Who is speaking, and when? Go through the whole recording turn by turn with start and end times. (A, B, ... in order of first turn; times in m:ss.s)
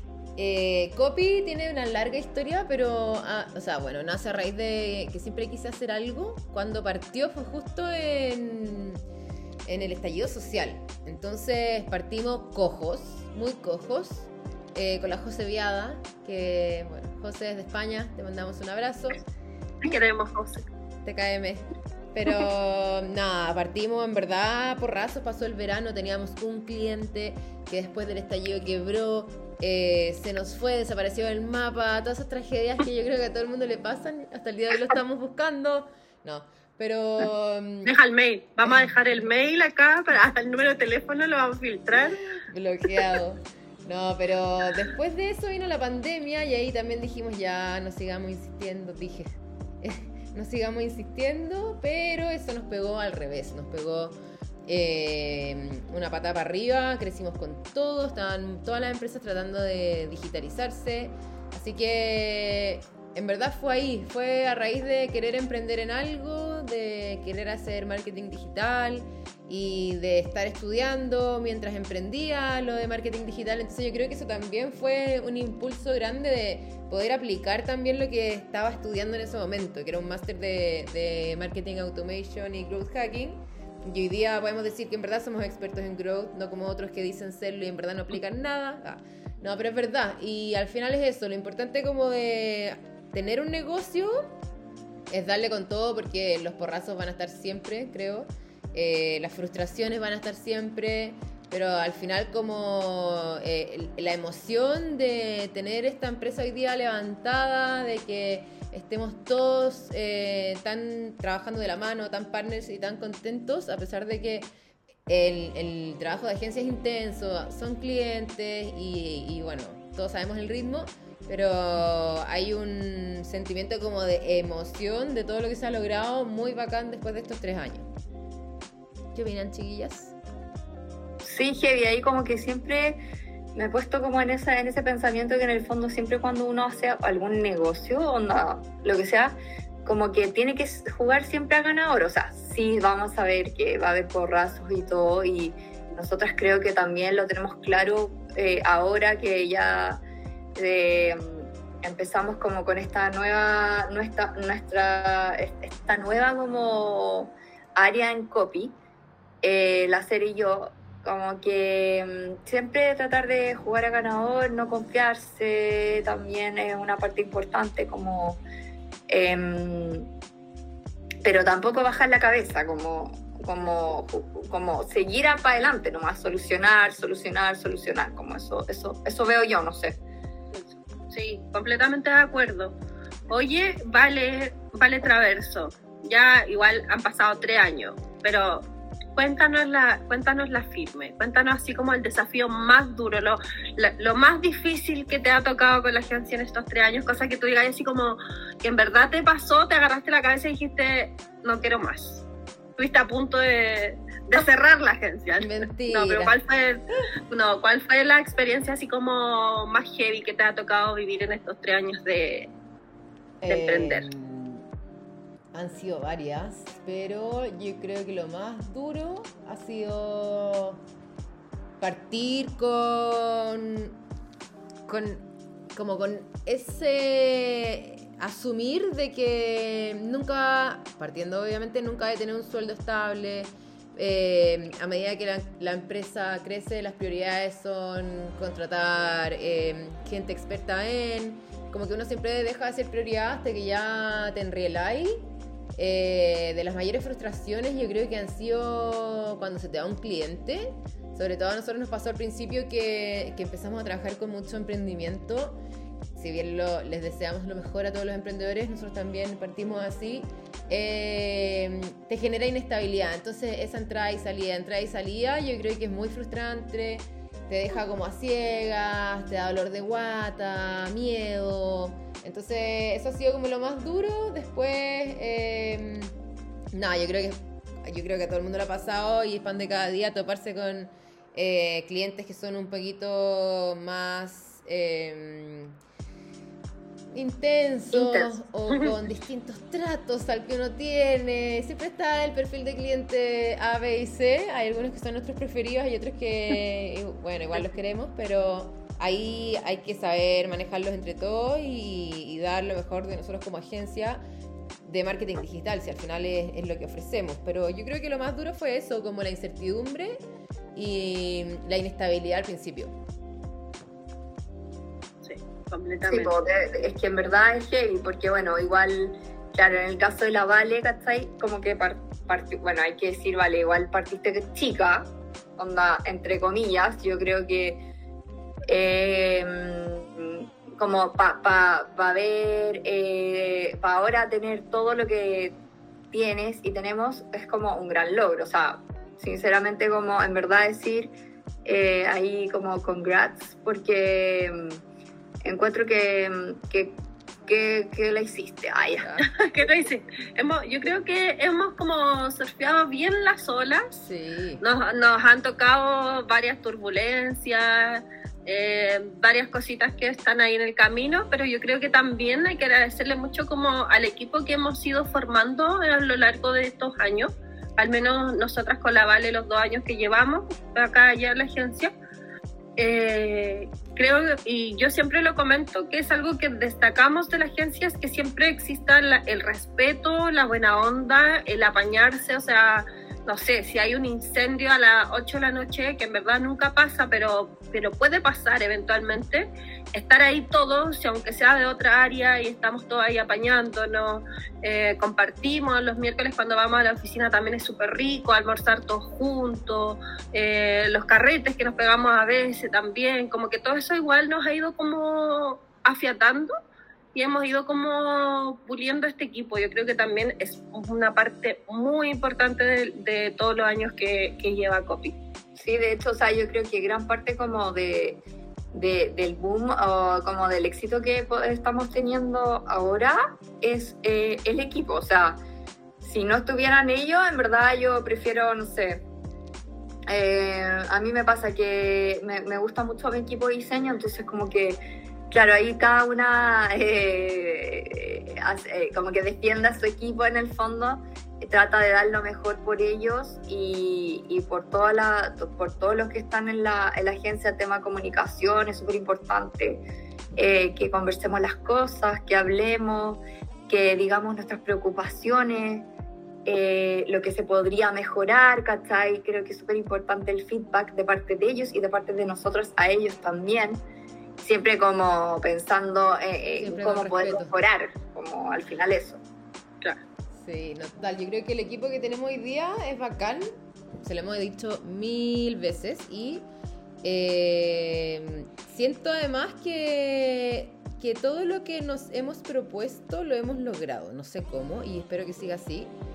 0:00.4-0:09.0 A
0:09.7-0:19.2 A
0:19.8-0:20.6 B
0:21.0-0:37.9 A
0:37.8-0:42.2 B
0:38.6-0:38.9 A
0:42.3-1:34.4 A
1:35.1-1:54.5 A
1:55.1-2:07.9 A
2:09.1-2:10.2 A
2:11.2-2:13.0 C
2:13.5-2:30.0 C
2:30.6-2:38.8 C
2:39.4-2:48.4 C
2:49.1-2:50.1 C
2:51.2-3:00.0 C
3:00.5-3:02.8 B
3:03.3-3:08.6 B
3:09.2-3:22.2 B
3:22.8-3:32.5 B
3:25.4-3:26.4 A
3:33.4-3:34.7 A
3:33.5-3:34.1 B
3:35.5-3:40.8 A
3:41.8-3:44.0 A
3:44.9-4:15.6 A
4:16.1-4:36.1 A
4:36.7-4:45.8 A
4:47.1-5:04.2 A
4:47.9-4:48.3 C
5:04.8-5:10.2 A
5:10.7-5:12.9 A
5:15.2-5:16.4 B
5:16.0-5:27.8 C
5:28.7-5:35.6 C
5:36.1-5:44.8 C
5:45.4-5:49.1 C
5:49.0-5:49.3 A
5:49.3-5:54.0 B
5:53.9-5:54.6 A
5:54.6-6:11.9 B
6:12.8-6:46.5 B
6:47.1-6:55.1 B
6:55.6-6:58.2 C
6:58.7-7:05.4 C
7:06.0-7:09.0 C
7:10.1-7:14.8 C
7:15.3-7:29.8 C
7:30.4-7:35.9 C
7:36.4-7:43.8 C
7:44.4-7:49.2 C
7:46.6-7:47.6 A
7:50.3-7:56.4 A
7:57.0-8:05.9 A